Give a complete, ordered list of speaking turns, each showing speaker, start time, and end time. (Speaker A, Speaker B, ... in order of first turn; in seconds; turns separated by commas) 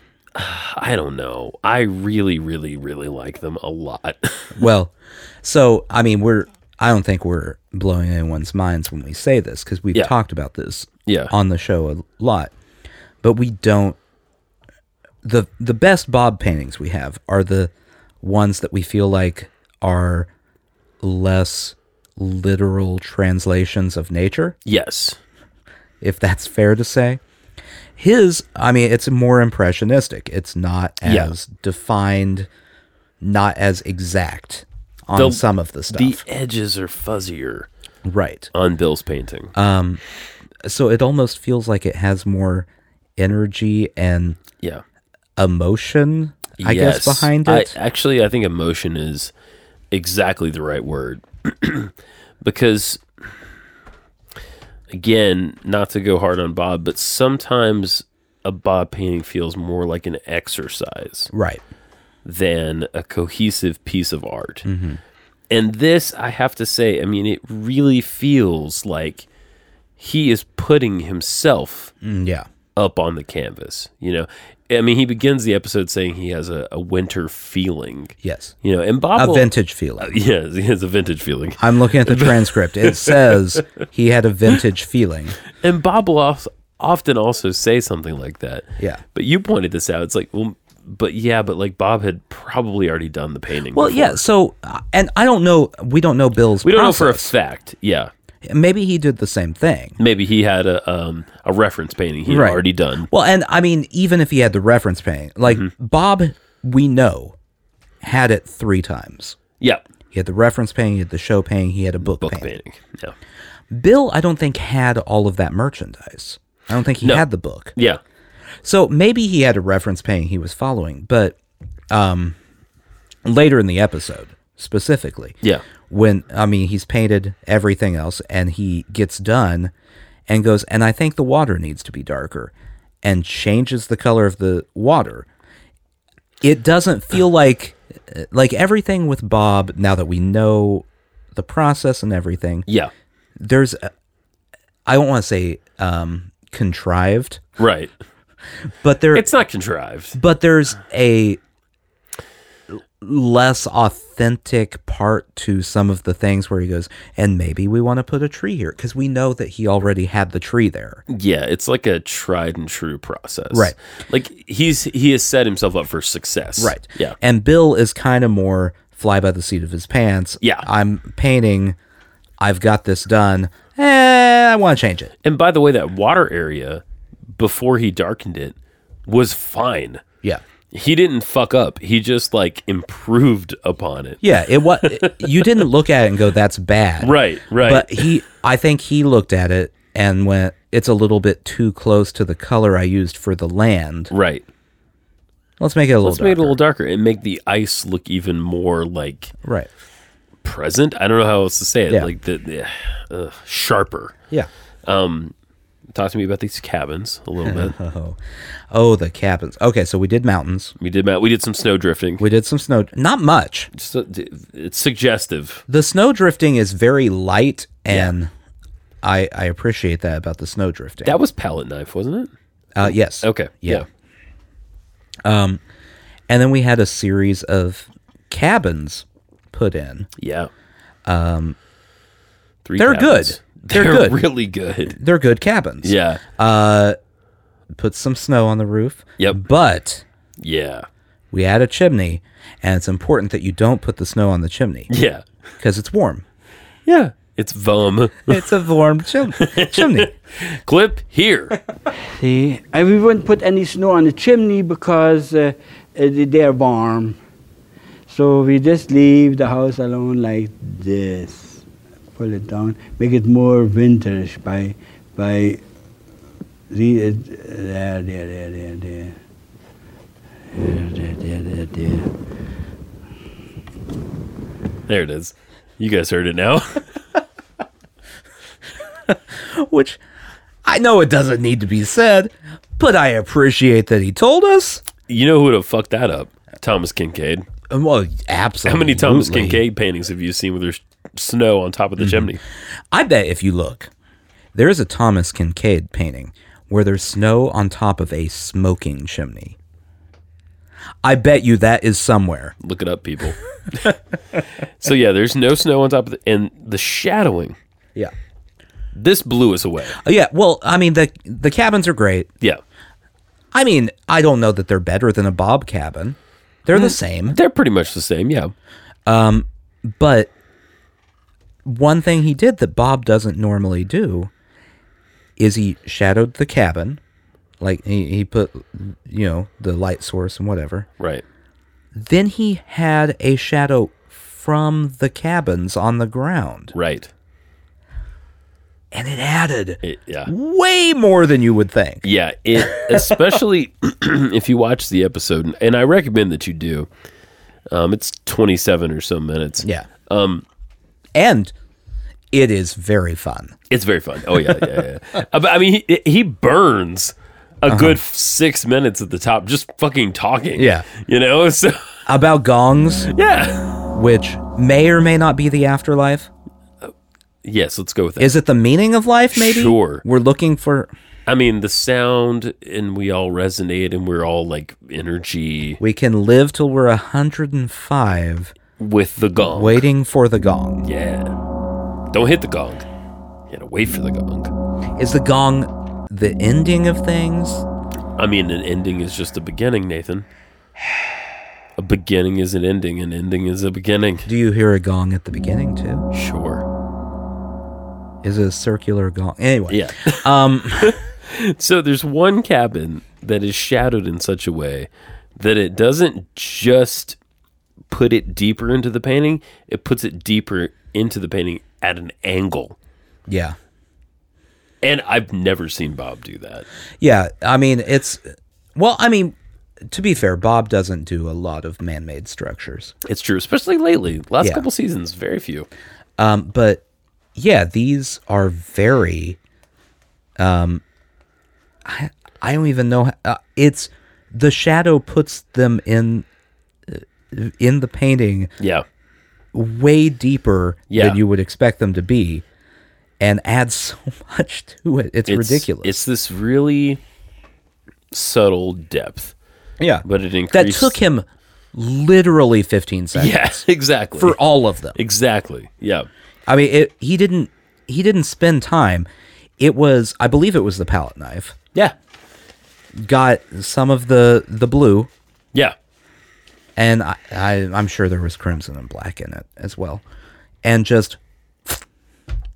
Speaker A: 0.3-4.5, Speaker B: 4.5-12.5, Speaker A: 11.1-11.3, Speaker B: 13.2-14.0, Speaker B: 15.2-17.7, Speaker B: 18.2-20.3, Speaker B: 21.0-24.6, Speaker A: 24.6-25.2, Speaker B: 26.0-27.2, Speaker B: 28.0-32.5, Speaker A: 31.0-31.3, Speaker B: 33.2-36.2, Speaker A: 35.1-37.7, Speaker B: 38.0-38.5, Speaker A: 38.5-39.5, Speaker B: 39.5-40.0, Speaker B: 40.6-44.4, Speaker B: 45.4-47.8, Speaker A: 46.6-49.3, Speaker A: 49.9-53.0, Speaker A: 54.9-61.3, Speaker B: 61.3-61.6, Speaker A: 62.2-64.6, Speaker B: 64.6-65.0, Speaker A: 65.5-69.2, Speaker A: 70.0-71.9, Speaker B: 72.0-72.5, Speaker A: 72.8-79.5, Speaker B: 78.2-78.5, Speaker B: 79.2-80.2, Speaker A: 80.0-83.6, Speaker B: 81.6-85.4, Speaker A: 85.6-94.2, Speaker B: 93.7-97.3, Speaker A: 96.6-98.1, Speaker B: 98.4-100.0, Speaker A: 100.0-103.1, Speaker B: 102.3-107.3, Speaker B: 108.0-109.4, Speaker B: 110.1-112.5, Speaker A: 112.1-113.1, Speaker B: 113.7-117.7, Speaker B: 118.6-121.4, Speaker B: 121.9-122.4, Speaker B: 123.2-125.3, Speaker B: 125.9-129.7, Speaker B: 130.3-132.5, Speaker B: 133.0-135.3, Speaker B: 136.4-142.7, Speaker B: 143.4-143.9, Speaker B: 144.8-147.4, Speaker A: 147.6-147.9, Speaker B: 148.8-149.3, Speaker A: 149.1-150.2, Speaker B: 150.1-151.4, Speaker B: 153.0-161.0, Speaker A: 161.1-167.2, Speaker B: 166.6-171.8, Speaker B: 172.4-175.1, Speaker A: 175.2-176.8, Speaker A: 177.3-178.5, Speaker A: 179.1-180.0, Speaker A: 180.7-184.2, Speaker B: 184.2-194.1, Speaker A: 184.8-185.6, Speaker A: 187.0-188.2, Speaker A: 194.1-194.4, Speaker B: 195.6-196.6, Speaker A: 196.0-199.3, Speaker B: 199.4-199.7, Speaker A: 200.4-204.1, Speaker A: 204.8-205.3, Speaker A: 205.9-207.7, Speaker B: 207.4-208.2, Speaker B: 208.7-210.7, Speaker A: 210.8-212.2, Speaker B: 212.2-213.7, Speaker A: 213.7-215.6, Speaker B: 215.7-218.3, Speaker B: 219.0-221.2, Speaker A: 221.0-222.3, Speaker B: 222.8-223.8, Speaker A: 223.2-223.8, Speaker B: 225.2-225.6, Speaker B: 226.3-230.1, Speaker A: 230.2-230.5, Speaker B: 231.1-231.6, Speaker A: 232.6-234.9, Speaker B: 232.8-234.2, Speaker B: 234.9-236.9, Speaker A: 235.8-236.2, Speaker B: 237.7-240.0, Speaker A: 240.4-240.8, Speaker B: 241.3-244.9, Speaker A: 244.9-245.2, Speaker B: 245.6-246.2, Speaker A: 246.8-248.5, Speaker B: 248.3-250.1, Speaker A: 249.3-251.6, Speaker C: 252.0-257.2, Speaker C: 258.1-261.6, Speaker C: 262.1-265.6, Speaker C: 266.7-269.2, Speaker C: 270.5-272.1, Speaker A: 274.9-276.9, Speaker B: 279.1-280.0, Speaker B: 280.6-284.8, Speaker A: 285.1-287.4, Speaker B: 287.7-289.6, Speaker A: 288.6-292.4, Speaker B: 292.0-292.3, Speaker B: 292.9-293.9, Speaker B: 294.5-299.6, Speaker B: 301.0-302.5, Speaker A: 302.6-303.9, Speaker A: 304.8-307.6, Speaker A: 308.9-310.0, Speaker B: 309.9-312.3, Speaker B: 313.5-317.4, Speaker A: 316.7-318.5, Speaker B: 319.1-320.3, Speaker B: 321.6-324.3, Speaker B: 325.4-327.0, Speaker B: 327.6-330.9, Speaker A: 331.0-331.2, Speaker B: 331.9-336.7, Speaker A: 336.7-337.1, Speaker B: 338.9-343.1, Speaker A: 339.8-340.3, Speaker A: 342.0-346.9, Speaker A: 347.7-350.4, Speaker B: 351.1-351.5, Speaker B: 352.3-353.5, Speaker A: 353.7-361.8, Speaker B: 357.7-358.0, Speaker B: 360.6-360.9, Speaker B: 362.1-363.1, Speaker A: 363.1-363.8, Speaker B: 363.9-366.3, Speaker A: 367.4-368.4, Speaker B: 368.2-370.9, Speaker A: 369.3-370.0, Speaker A: 371.3-375.8, Speaker B: 375.8-378.5, Speaker A: 378.8-379.8, Speaker B: 379.5-380.9, Speaker A: 380.8-381.3, Speaker A: 382.1-382.9, Speaker A: 383.5-384.5, Speaker B: 385.0-387.6, Speaker A: 388.2-390.2, Speaker A: 391.8-394.3, Speaker B: 394.2-396.1, Speaker A: 396.1-396.6, Speaker B: 398.2-401.0, Speaker A: 399.7-400.3, Speaker A: 400.8-407.2, Speaker A: 407.9-412.8, Speaker B: 413.3-413.6, Speaker A: 414.8-416.6, Speaker B: 417.0-419.4, Speaker B: 419.9-422.9, Speaker A: 423.0-425.7, Speaker B: 426.2-426.8, Speaker B: 427.3-429.4, Speaker B: 430.4-430.8, Speaker B: 431.8-436.2, Speaker B: 436.9-438.5, Speaker A: 438.6-438.8, Speaker B: 439.5-442.4, Speaker A: 440.9-441.2, Speaker B: 443.2-446.0, Speaker A: 445.3-447.0, Speaker A: 448.1-449.3, Speaker B: 449.8-453.6, Speaker A: 450.0-450.9, Speaker A: 453.1-454.4, Speaker B: 454.2-455.0, Speaker A: 454.9-456.1, Speaker B: 456.5-459.1, Speaker B: 459.6-461.6, Speaker B: 463.0-465.1, Speaker B: 466.8-470.0, Speaker B: 470.6-471.2